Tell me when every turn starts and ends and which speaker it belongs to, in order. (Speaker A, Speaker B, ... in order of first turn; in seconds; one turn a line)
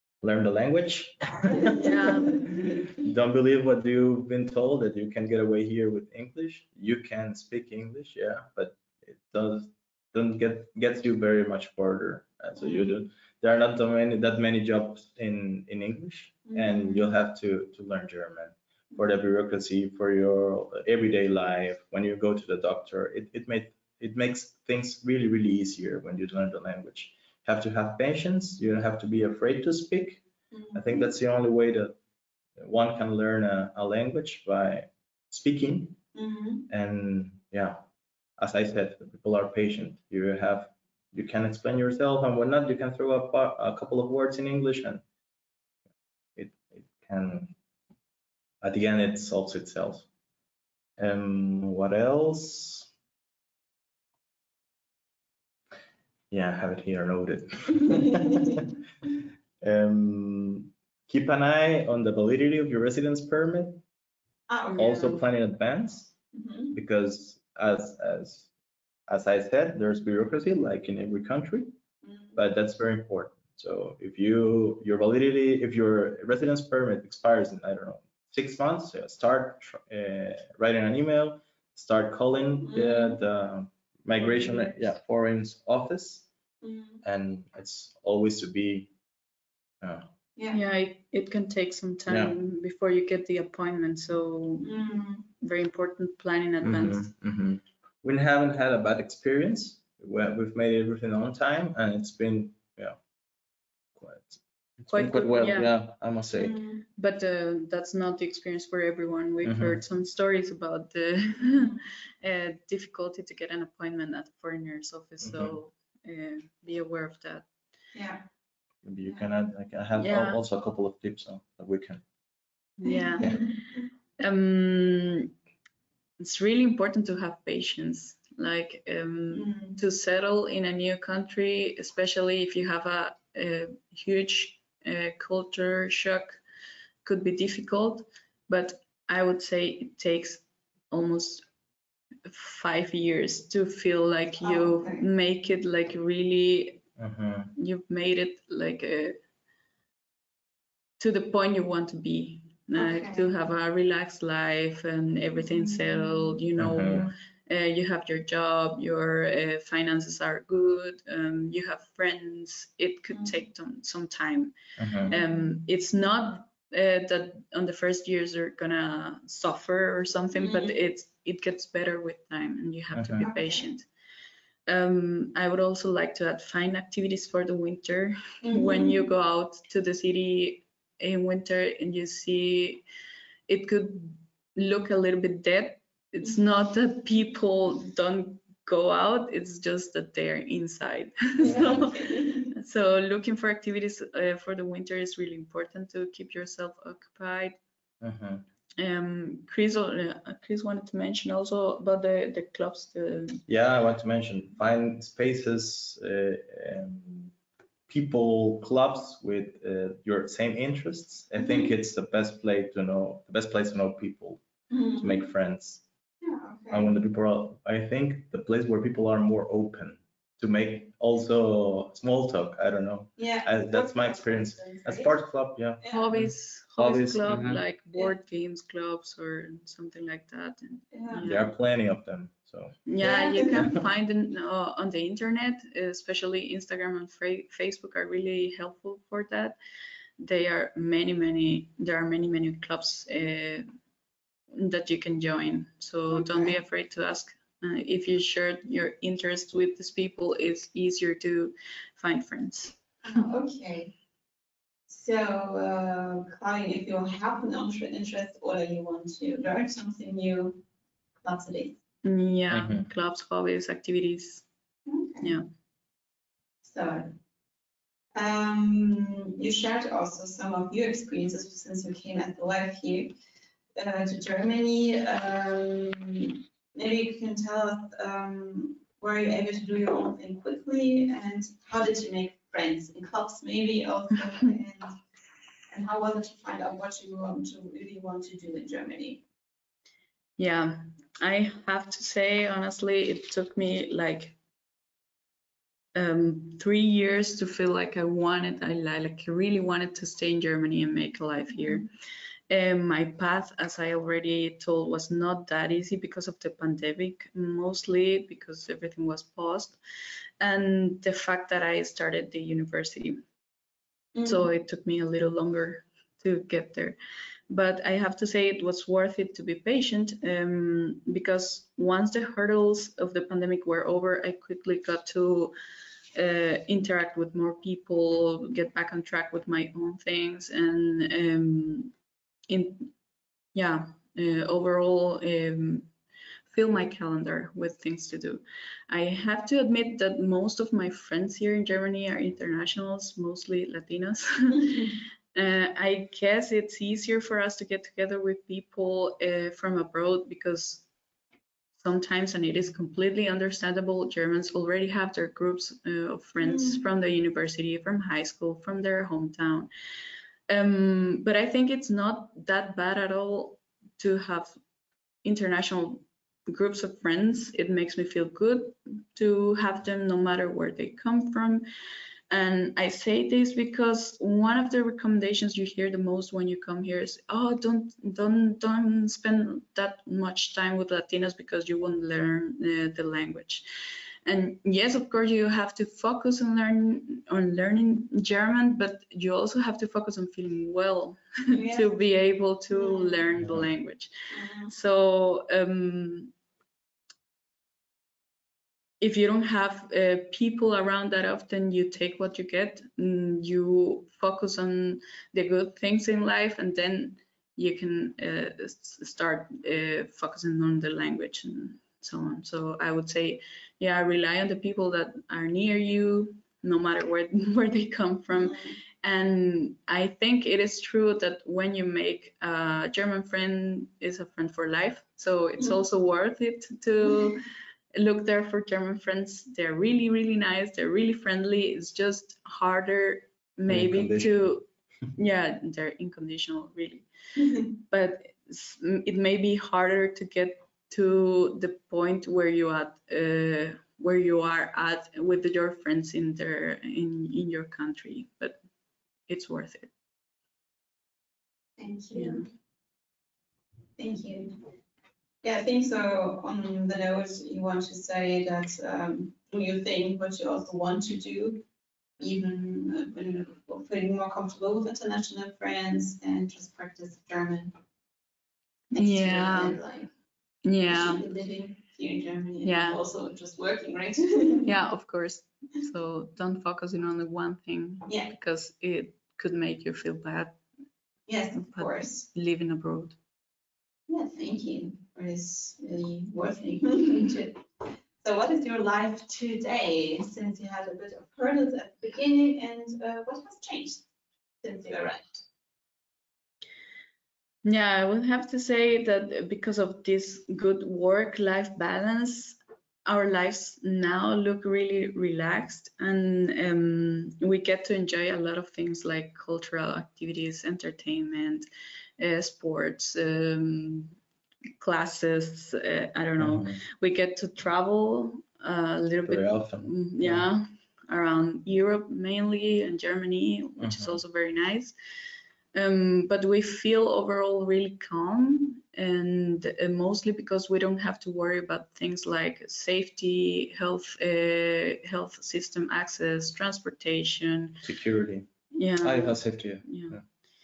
Speaker A: 0.2-32.0
Speaker B: 1.3-3.0
Speaker C: 1.7-2.6
Speaker B: 12.6-13.0
Speaker B: 16.5-17.2
Speaker B: 30.5-31.1
Speaker A: 32.6-36.0
Speaker B: 36.1-36.7
Speaker A: 36.7-37.8
Speaker A: 38.4-45.0
Speaker A: 46.4-47.5
Speaker A: 48.6-50.1
Speaker A: 51.0-52.9
Speaker A: 56.3-58.7
Speaker B: 57.9-58.6
Speaker A: 59.6-63.8
Speaker B: 64.5-65.0
Speaker C: 64.7-65.2
Speaker A: 64.8-66.1
Speaker B: 66.3-66.8
Speaker A: 66.7-68.5
Speaker A: 69.1-71.8
Speaker B: 72.0-72.4
Speaker A: 72.3-86.3
Speaker B: 82.6-83.2
Speaker C: 84.2-84.8
Speaker B: 86.6-87.0
Speaker A: 87.0-88.9
Speaker A: 89.8-90.1
Speaker B: 90.4-90.6
Speaker C: 90.5-94.7
Speaker A: 92.1-92.3
Speaker B: 94.6-95.3
Speaker C: 95.4-97.1
Speaker A: 96.6-103.0
Speaker A: 104.0-106.6
Speaker C: 104.9-105.7
Speaker B: 106.3-106.8
Speaker C: 107.0-117.5
Speaker A: 109.4-109.8
Speaker A: 115.2-115.6
Speaker B: 117.9-118.2
Speaker A: 118.8-122.0
Speaker C: 120.0-120.4
Speaker C: 122.8-123.5
Speaker B: 122.9-123.4
Speaker C: 124.2-125.3
Speaker C: 126.2-136.4
Speaker B: 129.3-129.8
Speaker C: 137.1-141.5
Speaker C: 142.3-146.8
Speaker B: 144.4-145.1
Speaker A: 147.0-147.5
Speaker C: 147.6-149.2
Speaker C: 151.0-164.6
Speaker B: 152.8-153.3
Speaker B: 155.6-156.4
Speaker A: 156.6-157.1
Speaker A: 164.8-165.1
Speaker C: 165.1-173.9
Speaker B: 165.1-165.4
Speaker B: 170.4-170.8
Speaker A: 172.9-173.3
Speaker B: 173.2-173.7
Speaker C: 174.7-182.8
Speaker B: 178.4-179.0
Speaker C: 183.5-197.6
Speaker B: 191.4-192.5
Speaker A: 191.4-191.8
Speaker A: 198.0-198.4
Speaker C: 198.8-203.4
Speaker A: 203.5-207.3
Speaker A: 207.9-214.4
Speaker B: 211.4-211.7
Speaker B: 214.7-215.2
Speaker A: 215.0-215.8
Speaker B: 216.2-216.9
Speaker A: 216.7-227.6
Speaker B: 223.2-225.2
Speaker B: 225.8-226.2
Speaker C: 225.9-231.5
Speaker B: 230.9-231.3
Speaker A: 231.2-232.8
Speaker C: 232.9-239.6
Speaker B: 233.0-233.8
Speaker C: 240.2-243.7
Speaker C: 244.5-253.3
Speaker B: 246.1-246.6
Speaker B: 253.0-253.9
Speaker B: 254.9-260.6
Speaker B: 261.2-261.8
Speaker C: 262.0-264.4
Speaker A: 262.5-262.9
Speaker B: 264.9-265.4
Speaker B: 266.6-267.1
Speaker B: 268.1-273.1
Speaker B: 273.8-285.0
Speaker B: 285.7-289.2
Speaker C: 290.4-294.4
Speaker C: 295.9-301.9
Speaker C: 302.5-309.8
Speaker C: 310.4-313.2
Speaker B: 314.1-314.5
Speaker C: 314.2-317.0
Speaker C: 317.5-325.5
Speaker C: 326.1-331.9
Speaker C: 332.5-332.9
Speaker C: 333.6-335.9
Speaker C: 336.5-350.9
Speaker C: 351.8-359.7
Speaker B: 356.4-356.9
Speaker C: 360.5-364.6
Speaker C: 365.2-371.6
Speaker C: 372.3-383.6
Speaker C: 384.2-394.1
Speaker B: 391.5-392.0
Speaker B: 392.7-393.2
Speaker A: 393.4-393.7
Speaker B: 394.3-394.7
Speaker C: 394.7-396.3
Speaker C: 399.0-437.1
Speaker B: 418.4-418.8
Speaker A: 433.7-434.5
Speaker C: 437.7-448.6
Speaker C: 449.3-449.9
Speaker B: 451.8-452.5
Speaker C: 452.1-452.4
Speaker B: 454.0-454.6
Speaker B: 455.4-461.6
Speaker B: 462.2-467.7
Speaker B: 468.9-470.1
Speaker C: 468.9-469.8
Speaker C: 470.6-471.2
Speaker B: 470.9-474.7
Speaker C: 472.6-473.0
Speaker C: 474.7-480.6
Speaker B: 481.3-482.3
Speaker C: 481.6-483.2
Speaker B: 484.1-487.6
Speaker B: 488.2-494.0
Speaker B: 494.6-495.4
Speaker C: 497.6-511.7
Speaker C: 512.2-514.1
Speaker C: 514.8-524.9
Speaker A: 516.4-516.8
Speaker A: 519.3-520.5
Speaker A: 523.8-524.2
Speaker C: 525.7-537.8
Speaker A: 537.8-538.5
Speaker C: 538.8-540.2
Speaker A: 539.0-540.2